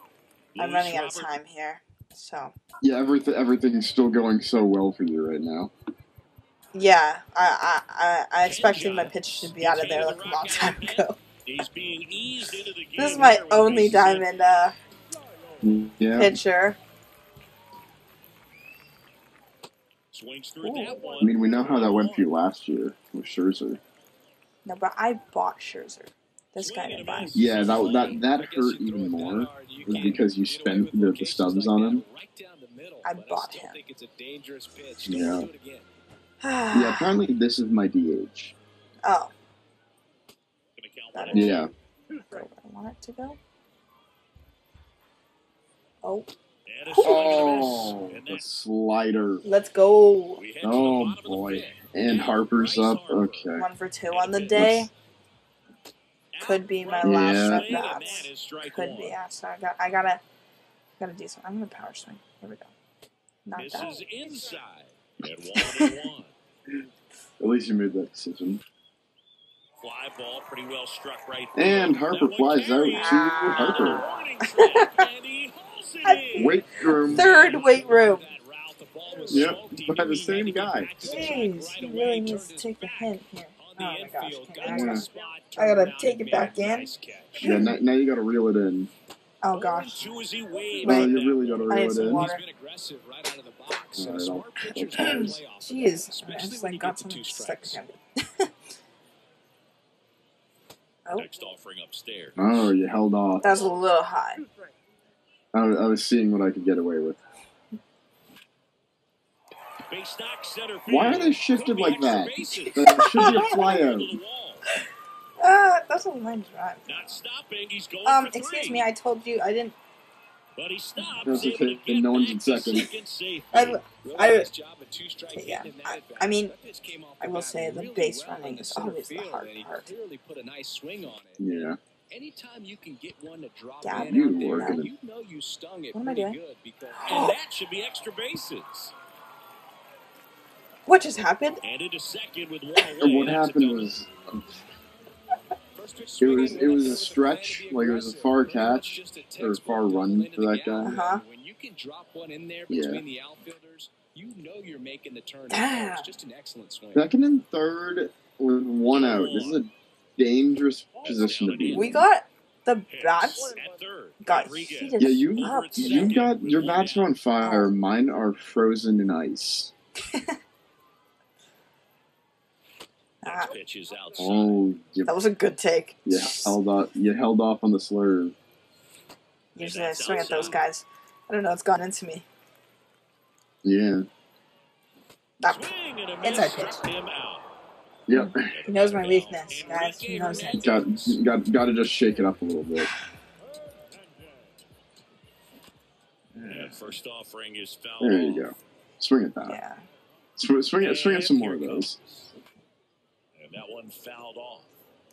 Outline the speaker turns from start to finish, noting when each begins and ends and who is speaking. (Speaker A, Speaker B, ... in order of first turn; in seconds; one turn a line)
Speaker A: 0.5-1.3
Speaker B: 0.6-2.5
Speaker C: 2.8-5.7
Speaker B: 6.7-11.2
Speaker A: 8.4-14.4
Speaker B: 13.0-14.8
Speaker C: 15.6-16.4
Speaker B: 16.2-16.8
Speaker A: 20.1-22.3
Speaker B: 20.6-21.2
Speaker C: 21.2-23.8
Speaker B: 24.6-27.4
Speaker A: 26.6-28.2
Speaker C: 27.3-32.0
Speaker D: 27.6-35.9
Speaker B: 33.0-33.8
Speaker C: 35.0-35.5
Speaker B: 36.4-37.2
Speaker C: 36.7-38.5
Speaker B: 39.0-39.3
Speaker A: 40.8-41.6
Speaker B: 41.1-41.6
Speaker C: 41.3-41.7
Speaker B: 42.2-43.4
Speaker B: 46.0-46.3
Speaker A: 46.7-48.5
Speaker B: 46.9-47.4
Speaker C: 47.0-49.4
Speaker B: 49.4-50.4
Speaker A: 50.4-54.8
Speaker C: 50.6-53.7
Speaker B: 53.6-54.9
Speaker C: 54.5-54.9
Speaker A: 56.3-59.2
Speaker B: 56.4-60.2
Speaker C: 57.0-57.8
Speaker B: 61.0-62.7
Speaker B: 63.5-64.0
Speaker A: 63.6-66.3
Speaker B: 65.6-65.9
Speaker C: 67.4-68.6
Speaker A: 69.8-81.7
Speaker C: 71.5-74.0
Speaker B: 72.9-75.0
Speaker B: 76.0-78.2
Speaker C: 76.3-77.3
Speaker D: 77.2-87.5
Speaker C: 79.3-80.9
Speaker B: 81.0-87.8
Speaker C: 84.6-85.0
Speaker A: 84.8-86.5
Speaker C: 87.4-88.9
Speaker B: 89.4-90.1
Speaker A: 89.6-91.8
Speaker B: 90.8-91.1
Speaker C: 90.8-92.3
Speaker B: 91.7-92.4
Speaker D: 91.8-97.8
Speaker C: 94.0-95.4
Speaker B: 94.9-98.5
Speaker A: 101.2-102.7
Speaker C: 102.4-103.7
Speaker B: 103.4-104.4
Speaker C: 105.5-107.2
Speaker A: 109.9-114.7
Speaker C: 110.9-114.2
Speaker B: 112.8-113.6
Speaker B: 115.4-117.2
Speaker A: 116.9-118.9
Speaker B: 118.0-119.8
Speaker A: 120.6-123.8
Speaker B: 121.0-121.5
Speaker C: 121.2-122.9
Speaker B: 123.5-124.5
Speaker D: 123.9-137.2
Speaker B: 125.3-126.5
Speaker B: 127.2-129.9
Speaker C: 131.4-131.8
Speaker B: 133.8-134.8
Speaker C: 134.0-134.9
Speaker B: 135.9-136.4
Speaker B: 137.0-137.4
Speaker A: 137.1-138.9
Speaker B: 140.9-141.6
Speaker A: 141.6-144.0
Speaker C: 143.0-144.6
Speaker D: 145.8-157.1
Speaker C: 146.2-150.9
Speaker B: 150.8-151.2
Speaker C: 152.7-153.0
Speaker B: 155.5-156.1
Speaker C: 156.9-162.1
Speaker A: 158.9-159.6
Speaker A: 161.0-162.0
Speaker B: 161.7-163.6
Speaker A: 162.9-167.1
Speaker B: 164.2-166.2
Speaker C: 165.0-169.7
Speaker B: 167.4-167.7
Speaker B: 170.1-170.4
Speaker B: 173.2-173.5
Speaker A: 173.2-174.6
Speaker C: 174.2-175.1
Speaker B: 175.1-176.6
Speaker C: 176.1-178.3
Speaker B: 179.6-182.2
Speaker A: 179.6-180.6
Speaker C: 183.6-184.1
Speaker B: 185.4-185.7
Speaker A: 185.5-187.5
Speaker B: 186.2-186.8
Speaker C: 188.1-188.6
Speaker B: 188.1-190.8
Speaker A: 188.4-191.2
Speaker C: 190.6-192.9
Speaker B: 196.3-197.0
Speaker A: 196.5-198.6
Speaker C: 198.0-199.6
Speaker B: 199.5-199.8
Speaker C: 200.4-202.0
Speaker A: 200.8-202.3
Speaker A: 203.4-204.7